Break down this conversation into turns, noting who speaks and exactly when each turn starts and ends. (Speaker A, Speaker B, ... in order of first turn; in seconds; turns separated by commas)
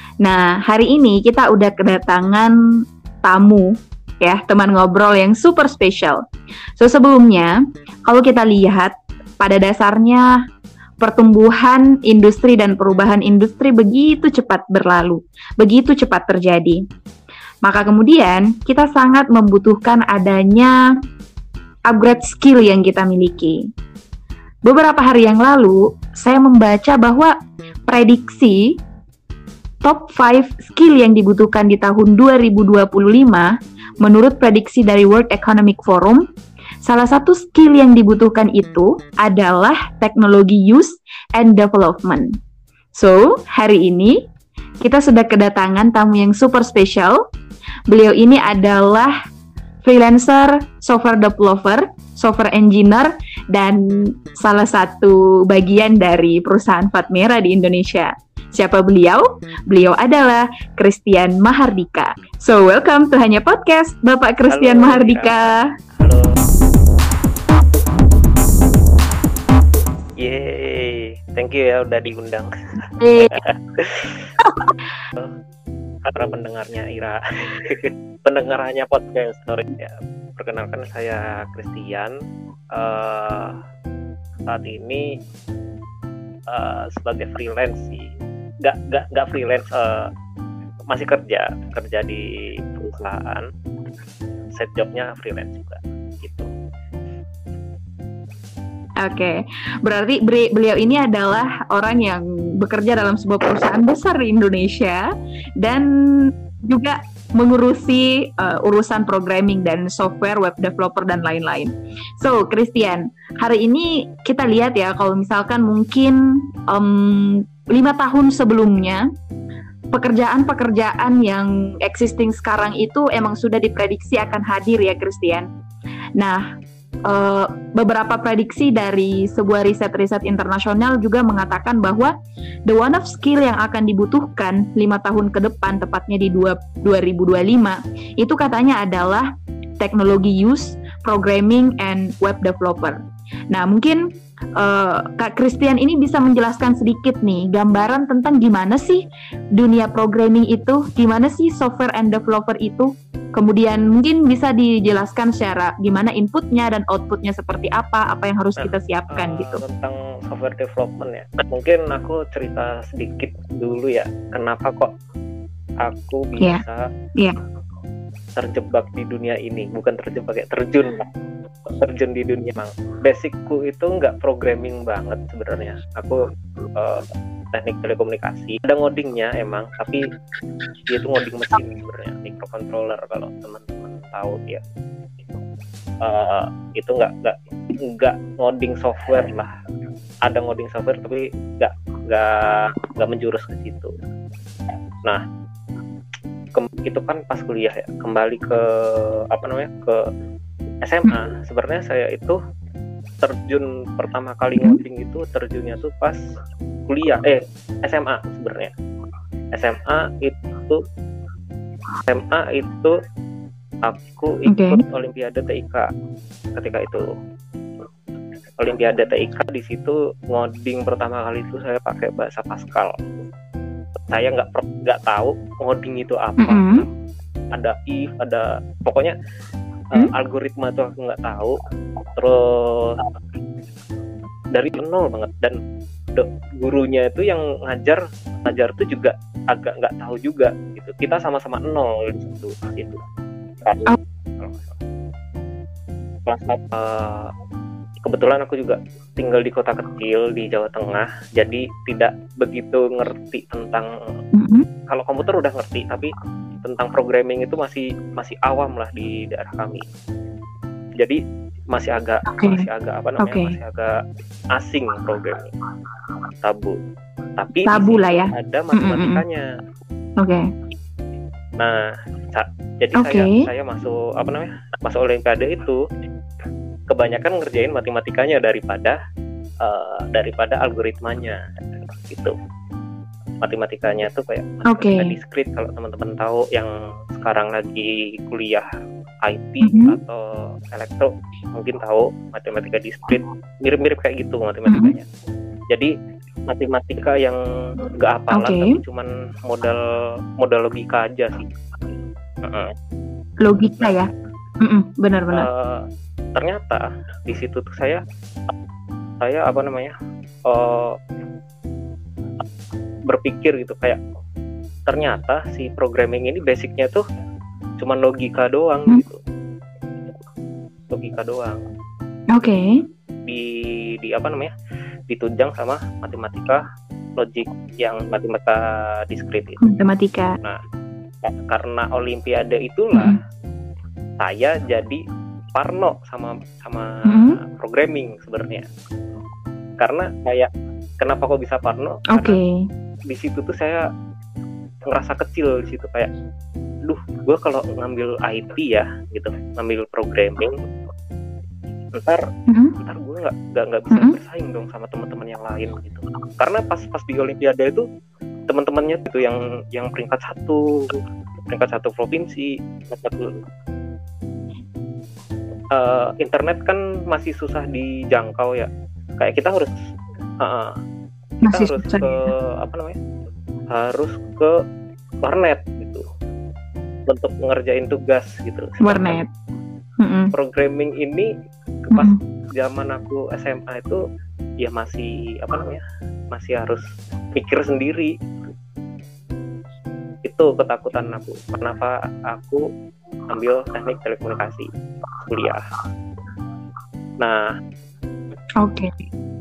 Speaker A: 0.2-2.5, Speaker A: 3.2-3.7, Speaker A: 4.2-6.2, Speaker A: 6.8-7.5, Speaker A: 8.1-10.3, Speaker A: 11.0-16.8, Speaker A: 17.6-20.8, Speaker A: 21.9-23.6, Speaker A: 24.6-27.3, Speaker A: 27.9-28.8, Speaker A: 29.8-36.2, Speaker A: 36.8-42.4, Speaker A: 42.9-44.2, Speaker A: 44.8-47.2, Speaker A: 47.9-49.1, Speaker A: 49.8-65.7, Speaker B: 64.5-66.4, Speaker B: 70.2-72.5, Speaker A: 73.0-73.4, Speaker B: 73.2-74.3, Speaker A: 74.4-74.7, Speaker B: 76.0-82.1, Speaker B: 82.7-83.6, Speaker B: 84.5-85.1, Speaker B: 86.5-88.1, Speaker B: 88.6-90.1, Speaker B: 90.9-93.5, Speaker B: 94.5-96.5, Speaker A: 99.0-105.0, Speaker A: 105.6-119.1, Speaker A: 119.9-125.5, Speaker A: 126.2-126.5, Speaker A: 127.1-132.1, Speaker A: 132.7-143.0, Speaker A: 143.5-159.6, Speaker B: 158.6-164.9, Speaker B: 165.8-166.8, Speaker B: 168.3-171.1, Speaker B: 171.7-176.2, Speaker B: 176.7-180.0, Speaker B: 180.9-184.6, Speaker B: 186.0-189.5, Speaker B: 190.2-193.9, Speaker B: 196.5-200.0, Speaker B: 200.8-202.4, Speaker B: 203.2-206.2, Speaker B: 206.9-208.7, Speaker B: 209.5-210.8, Speaker B: 212.1-212.9, Speaker B: 213.8-215.9, Speaker A: 214.5-214.8, Speaker B: 216.6-217.1, Speaker B: 218.6-222.9, Speaker B: 224.1-226.9, Speaker A: 226.4-226.8, Speaker B: 227.5-229.1, Speaker B: 229.9-231.6, Speaker B: 232.2-233.0, Speaker B: 234.5-235.6, Speaker B: 236.1-243.0, Speaker B: 243.6-244.8, Speaker B: 246.3-247.3, Speaker B: 248.0-253.9, Speaker A: 254.3-254.7, Speaker B: 254.9-256.1, Speaker B: 256.6-259.8, Speaker B: 261.7-263.9, Speaker A: 262.2-262.6, Speaker A: 263.2-263.6, Speaker B: 264.5-265.5, Speaker B: 266.4-266.8, Speaker B: 267.4-269.5, Speaker A: 267.7-269.2, Speaker B: 271.6-275.8, Speaker A: 273.0-273.4, Speaker B: 276.9-279.0, Speaker B: 279.6-281.4, Speaker B: 282.1-282.3, Speaker B: 283.4-288.7, Speaker A: 284.7-285.1, Speaker B: 289.2-295.0, Speaker A: 289.6-290.0, Speaker A: 294.7-294.9, Speaker B: 296.5-299.8, Speaker A: 298.3-298.8, Speaker B: 300.4-301.5, Speaker B: 302.4-302.7, Speaker A: 303.4-304.1, Speaker A: 304.6-305.5, Speaker B: 305.3-305.8, Speaker B: 306.4-308.0, Speaker B: 309.2-309.9, Speaker B: 310.5-311.0, Speaker B: 313.1-314.0, Speaker B: 314.9-317.0, Speaker B: 317.8-319.2, Speaker B: 320.9-321.6, Speaker A: 322.3-322.8, Speaker B: 323.2-324.5, Speaker B: 325.1-326.6, Speaker B: 327.2-329.6, Speaker A: 329.6-330.4, Speaker B: 331.2-333.2, Speaker B: 334.2-335.0, Speaker B: 335.5-338.7, Speaker A: 337.1-337.4, Speaker B: 339.8-342.4, Speaker A: 342.1-342.6, Speaker B: 343.1-343.9, Speaker B: 344.9-346.1, Speaker B: 346.8-350.5, Speaker B: 351.9-352.2, Speaker A: 352.5-352.7, Speaker B: 352.8-357.8, Speaker A: 353.9-354.2, Speaker B: 358.5-363.4, Speaker B: 365.7-369.7, Speaker B: 370.4-370.7, Speaker A: 371.4-372.3, Speaker B: 371.5-373.0, Speaker B: 373.7-374.5, Speaker B: 375.2-376.0, Speaker B: 377.1-379.2, Speaker A: 378.8-379.3, Speaker A: 380.0-380.3, Speaker B: 380.3-381.3, Speaker B: 381.9-384.0, Speaker A: 381.9-382.2, Speaker B: 384.6-385.8, Speaker B: 386.3-386.8, Speaker B: 387.3-388.1, Speaker B: 390.2-392.6, Speaker B: 393.3-394.7, Speaker B: 395.2-395.6, Speaker B: 397.2-397.5, Speaker A: 398.6-399.1